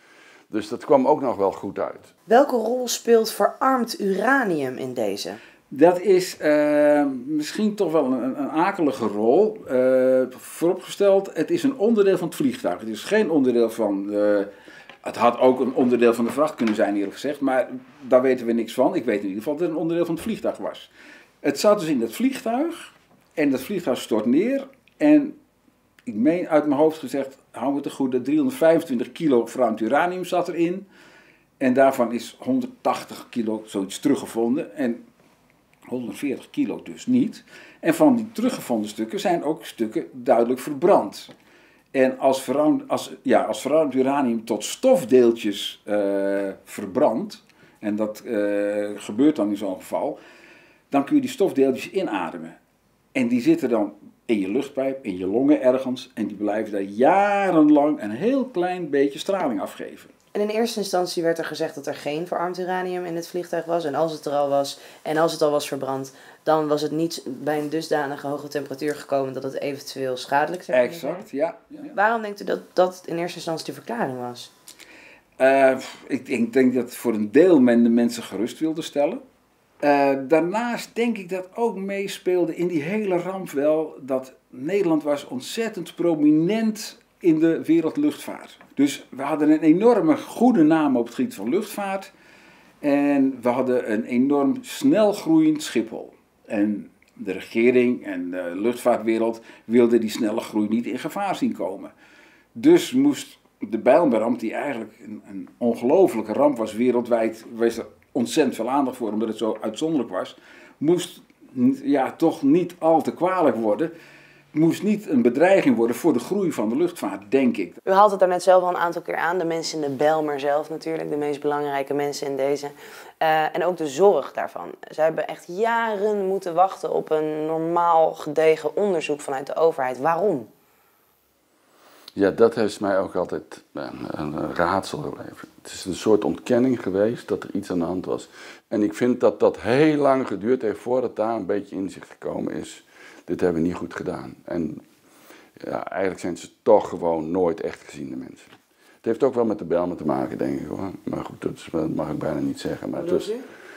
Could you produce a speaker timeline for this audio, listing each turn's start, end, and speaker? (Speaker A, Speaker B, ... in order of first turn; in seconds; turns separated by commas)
Speaker A: 0.5-2.1, Speaker B: 2.3-5.4, Speaker C: 5.7-14.5, Speaker C: 15.0-20.9, Speaker C: 21.4-25.4, Speaker C: 26.1-30.9, Speaker C: 31.6-35.0, Speaker C: 35.9-41.3, Speaker C: 41.9-50.2, Speaker C: 50.9-52.6, Speaker C: 53.1-60.1, Speaker B: 60.3-71.2, Speaker C: 70.7-71.9, Speaker B: 71.9-74.5, Speaker C: 75.4-79.2, Speaker C: 79.8-92.1, Speaker C: 92.8-101.9, Speaker C: 102.5-113.9, Speaker C: 114.5-117.8, Speaker B: 117.8-130.5, Speaker A: 132.2-144.8, Speaker A: 145.6-153.3, Speaker B: 152.9-153.4